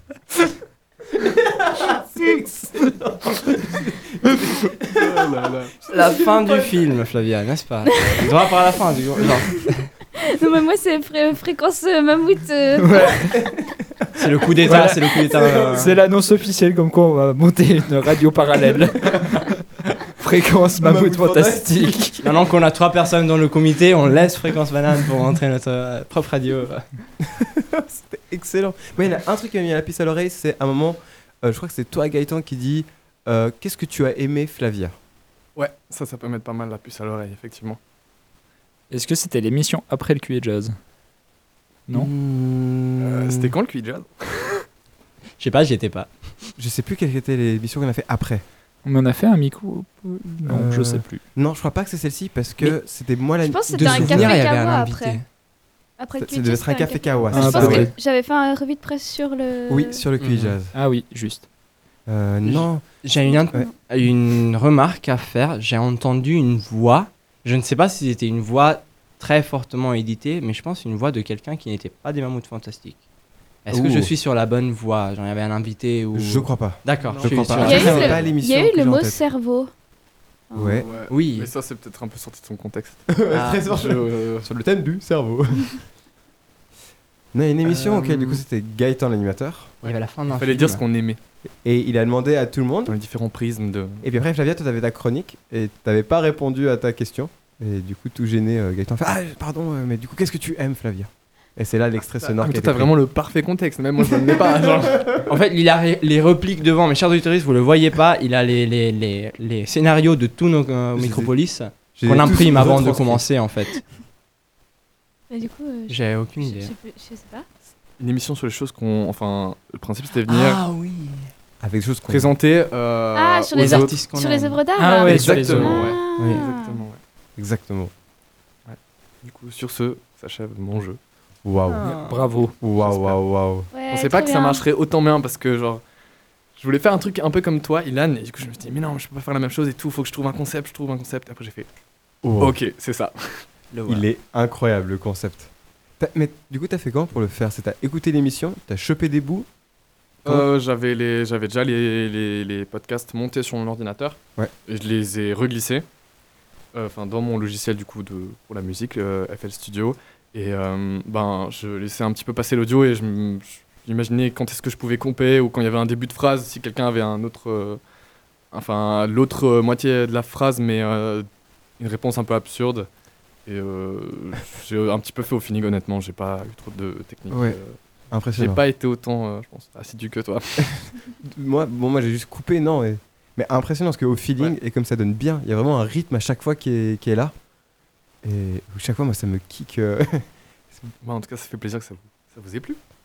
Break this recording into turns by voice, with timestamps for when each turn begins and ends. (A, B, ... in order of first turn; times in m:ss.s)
0:01.2-0:05.2 A
0:04.9-0:05.7 B
0:05.8-0:06.7 A
0:05.9-0:09.9 C
0:08.0-0:08.2 D
0:10.2-0:13.2 D
0:12.8-0:13.4 E
0:13.4-0:13.6 A
0:14.2-0:15.9 C
0:14.6-0:19.5 E
0:15.3-0:15.9 A
0:20.2-0:22.3 E
0:20.8-0:22.1 A
0:22.2-0:26.8 C
0:27.2-0:35.0 A
0:35.6-0:37.8 B
0:38.9-0:40.7 E
0:41.9-0:43.5 A
0:43.0-0:44.6 B
0:45.4-0:46.3 C
0:46.6-0:48.4 A
0:48.8-0:51.2 E
0:50.4-0:54.4 A
0:53.4-0:55.2 D
0:53.7-0:55.2 C
0:56.0-1:00.0 D
0:56.2-0:57.9 A
0:57.3-0:57.9 E
0:59.7-1:00.7 A
1:00.2-1:00.5 C
1:00.7-1:01.4 E
1:02.1-1:02.9 A
1:02.4-1:13.0 C
1:03.2-1:03.7 D
1:13.6-1:18.3 C
1:13.7-1:14.1 A
1:16.1-1:19.2 A
1:17.0-1:18.2 B
1:17.6-1:19.7 D
1:20.5-1:20.9 D
1:20.5-1:20.8 A
1:20.8-1:23.1 B
1:21.1-1:21.5 C
1:23.1-1:25.8 A
1:23.3-1:23.6 C
1:23.6-1:24.5 B
1:27.3-1:29.7 A
1:27.6-1:28.4 C
1:29.8-1:30.8 C
1:30.3-1:31.2 B
1:31.6-1:32.9 A
1:32.8-1:34.0 B
1:34.0-1:42.9 A
1:42.2-1:45.2 B
1:45.2-1:53.8 C
1:50.9-1:51.3 A
1:51.9-1:53.2 A
1:55.3-1:57.4 D
1:55.9-1:56.7 C
1:58.0-2:00.6 B
2:00.3-2:01.3 C
2:01.6-2:02.3 A
2:02.1-2:04.0 B
2:03.1-2:06.8 D
2:03.5-2:04.6 C
2:04.8-2:05.8 E
2:05.1-2:07.0 B
2:05.1-2:06.4 A
2:07.4-2:07.9 A
2:08.6-2:11.0 B
2:11.4-2:11.9 A
2:11.7-2:12.2 C
2:11.9-2:12.6 E
2:12.6-2:13.7 A
2:12.8-2:13.2 B
2:13.7-2:14.6 D
2:13.9-2:15.8 B
2:16.6-2:21.7 B
2:22.2-2:22.6 A
2:22.4-2:23.5 B
2:23.7-2:24.0 C
2:23.9-2:29.5 A
2:30.2-2:35.8 B
2:36.7-2:47.8 B
2:48.5-2:51.3 B
2:51.8-2:52.9 B
2:53.4-2:57.8 B
2:57.3-2:57.6 A
2:58.1-2:58.6 A
2:58.4-3:00.8 B
3:01.2-3:07.3 A
3:08.2-3:10.9 A
3:11.0-3:12.8 B